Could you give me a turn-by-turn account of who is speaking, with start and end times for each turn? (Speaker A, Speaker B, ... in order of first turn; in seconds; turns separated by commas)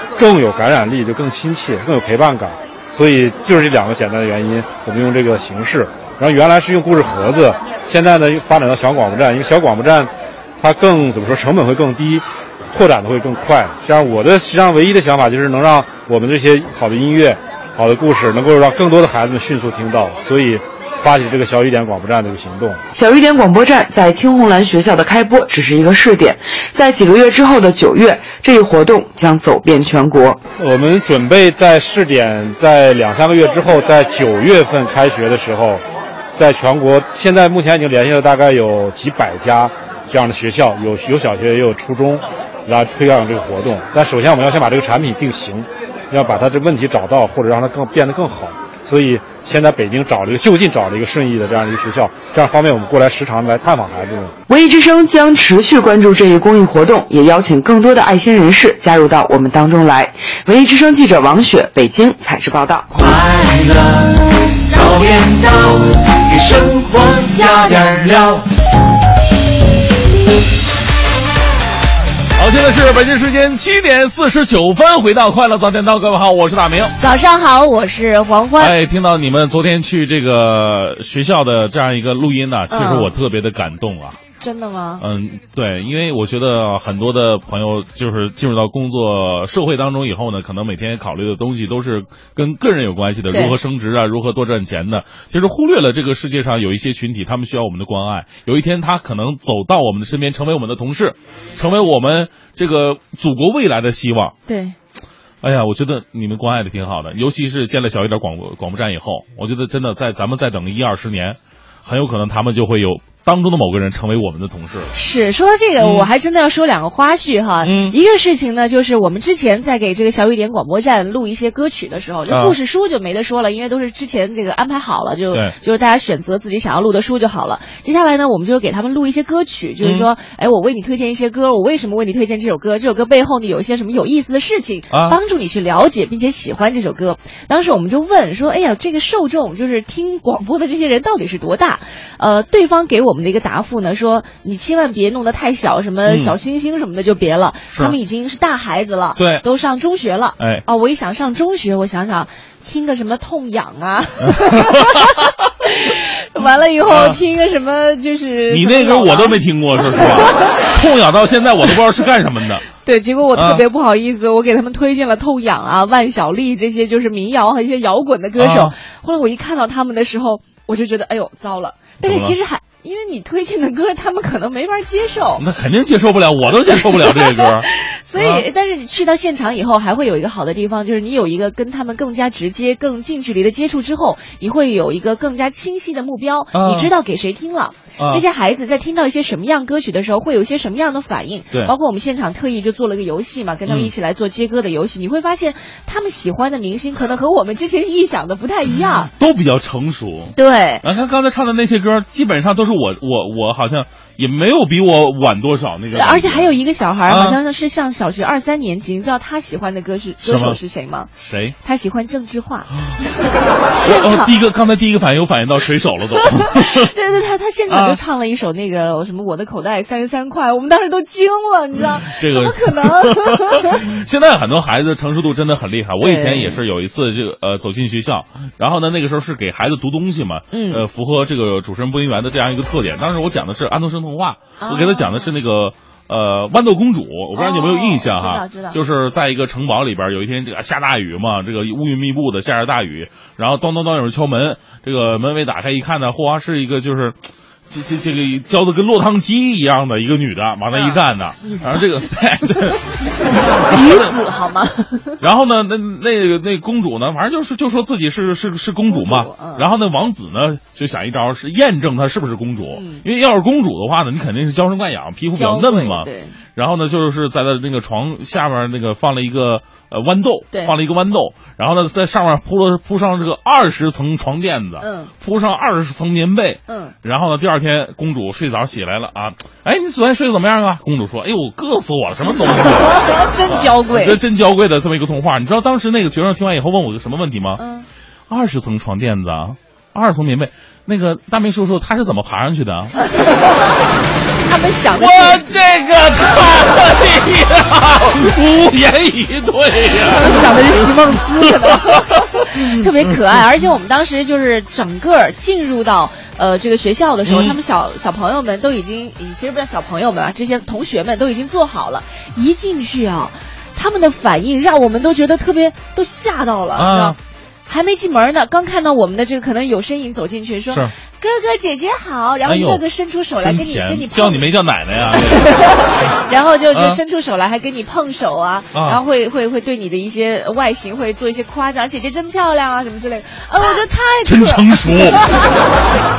Speaker A: 0.2-22.8, Speaker B: 22.9-30.4, Speaker A: 30.6-35.8, Speaker A: 36.3-54.4, Speaker B: 54.5-62.9, Speaker C: 62.9-68.4, Speaker D: 72.4-76.9, Speaker E: 77.0-78.8, Speaker D: 78.6-84.2, Speaker E: 82.7-83.1, Speaker E: 84.4-85.0, Speaker D: 85.0-104.4, Speaker E: 93.3-93.6, Speaker E: 104.5-104.8, Speaker D: 105.4-114.9, Speaker E: 114.9-160.6, Speaker D: 115.8-116.1, Speaker D: 117.6-118.0, Speaker D: 122.3-122.6, Speaker D: 129.8-130.1, Speaker D: 134.9-135.2, Speaker D: 146.1-146.3, Speaker D: 149.2-149.4, Speaker D: 150.4-150.6, Speaker D: 154.2-155.3, Speaker D: 156.9-157.2, Speaker D: 158.5-162.6, Speaker E: 162.8-175.4, Speaker D: 163.3-163.6, Speaker D: 168.4-168.7, Speaker D: 172.0-172.4, Speaker D: 175.4-178.4, Speaker E: 176.7-199.1, Speaker D: 186.5-186.9, Speaker D: 188.0-188.2, Speaker D: 193.7-193.9, Speaker D: 199.2-206.6, Speaker E: 200.4-200.8, Speaker E: 205.9-211.1, Speaker D: 207.1-207.4, Speaker D: 210.2-210.6, Speaker D: 211.2-211.6, Speaker E: 211.6-212.8, Speaker E: 213.8-214.3, Speaker D: 213.8-216.9, Speaker E: 216.2-223.8, Speaker D: 217.7-218.0, Speaker D: 222.1-247.2, Speaker E: 226.0-226.6, Speaker E: 230.5-230.8, Speaker E: 234.6-235.3, Speaker E: 237.3-238.8, Speaker D: 247.7-254.1, Speaker E: 250.7-251.8, Speaker E: 253.5-255.2, Speaker D: 255.2-287.6, Speaker E: 258.9-259.7, Speaker E: 262.8-263.0, Speaker E: 265.3-266.4, Speaker E: 274.8-275.1, Speaker E: 276.7-276.9, Speaker E: 282.4-284.2, Speaker E: 287.6-287.9, Speaker D: 288.3-292.9, Speaker E: 293.0-293.6, Speaker E: 294.5-295.4, Speaker D: 295.0-302.9, Speaker E: 300.1-324.4, Speaker D: 307.2-307.6, Speaker D: 316.8-317.2, Speaker D: 322.4-322.8, Speaker D: 323.4-325.8, Speaker E: 325.2-335.6, Speaker D: 326.7-327.0, Speaker D: 328.7-329.0, Speaker D: 334.2-335.5